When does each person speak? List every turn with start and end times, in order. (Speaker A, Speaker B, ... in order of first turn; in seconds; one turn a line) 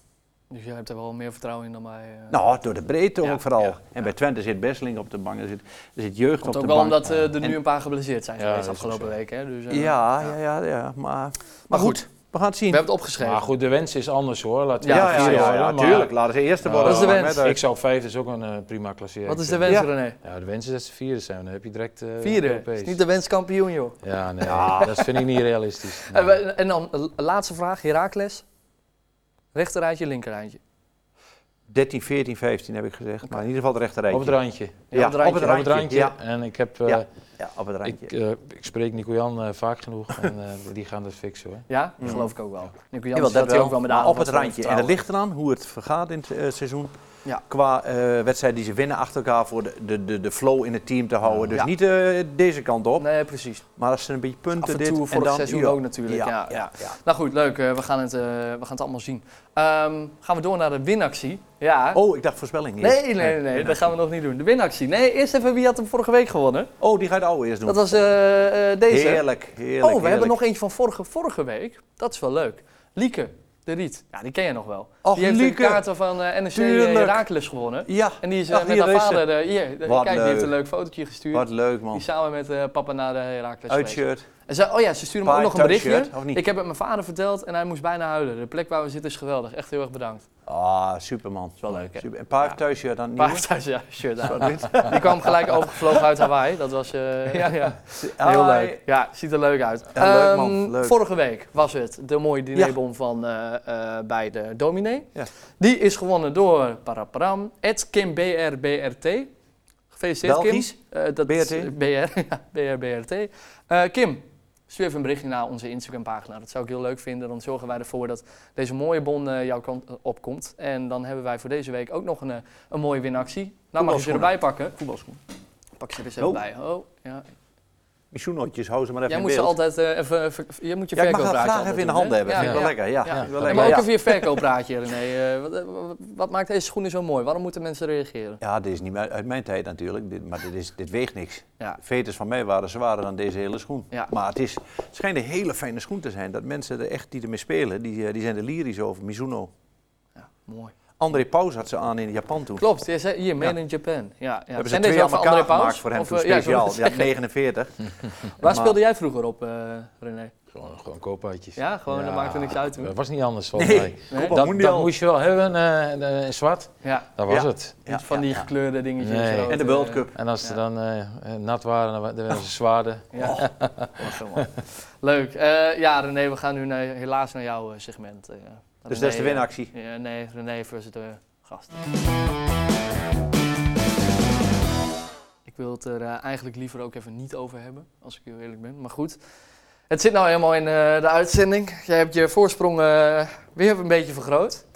Speaker A: 0.5-2.4
Speaker B: 2.3-7.5
Speaker A: 3.2-3.8
Speaker A: 6.4-10.0
Speaker C: 8.4-9.1
Speaker B: 9.7-12.9
Speaker A: 11.7-12.0
Speaker A: 12.7-13.5
Speaker C: 13.2-23.0
Speaker A: 14.8-15.7
Speaker B: 14.9-17.6
Speaker A: 16.8-17.5
Speaker A: 19.3-20.2
Speaker A: 22.2-25.0
Speaker C: 24.0-26.4
Speaker B: 24.4-25.1
Speaker A: 25.9-28.4
Speaker A: 29.5-30.6
Speaker B: 31.7-34.4
Speaker C: 34.1-37.1
Speaker A: 34.9-35.6
Speaker B: 34.9-36.2
Speaker B: 36.9-38.1
Speaker C: 37.8-42.1
Speaker A: 41.7-45.0
Speaker B: 43.1-46.9
Speaker B: 47.5-53.1
Speaker A: 53.0-53.6
Speaker B: 53.8-57.0
Speaker A: 54.6-62.0
Speaker B: 61.9-63.9
Speaker A: 62.8-66.7
Speaker B: 66.8-68.0
Speaker A: 67.7-69.2
Speaker B: 68.9-70.4
Speaker A: 69.8-90.2
Speaker B: 75.0-75.9
Speaker B: 76.5-77.3
Speaker B: 77.9-79.2
Speaker B: 79.8-80.6
Speaker B: 81.3-82.0
Speaker B: 83.7-84.2
Speaker B: 85.2-86.4
Speaker B: 90.5-93.4
Speaker A: 91.6-92.6
Speaker A: 93.2-109.3
Speaker B: 94.2-96.0
Speaker B: 98.0-98.8
Speaker B: 99.9-101.0
Speaker A: 109.9-124.8
Speaker B: 110.2-111.7
Speaker B: 123.8-125.2
Speaker A: 125.8-127.3
Speaker B: 128.1-129.6
Speaker A: 129.1-138.4
Speaker B: 130.9-134.4
Speaker C: 132.4-133.8
Speaker B: 138.4-149.5
Speaker A: 150.2-150.7
Speaker B: 151.0-152.6
Speaker A: 152.6-157.1
Speaker B: 154.6-158.8
Speaker A: 158.4-160.3
Speaker C: 160.5-167.8
Speaker A: 161.6-162.9
Speaker B: 163.6-164.9
Speaker A: 164.1-164.4
Speaker A: 166.8-167.1
Speaker B: 167.3-168.5
Speaker A: 167.9-170.6
Speaker C: 169.0-169.6
Speaker B: 169.5-170.2
Speaker C: 170.1-174.5
Speaker A: 173.1-181.8
Speaker B: 173.2-173.5
Speaker B: 178.9-179.7
Speaker A: 185.5-189.2
Speaker A: 189.9-194.6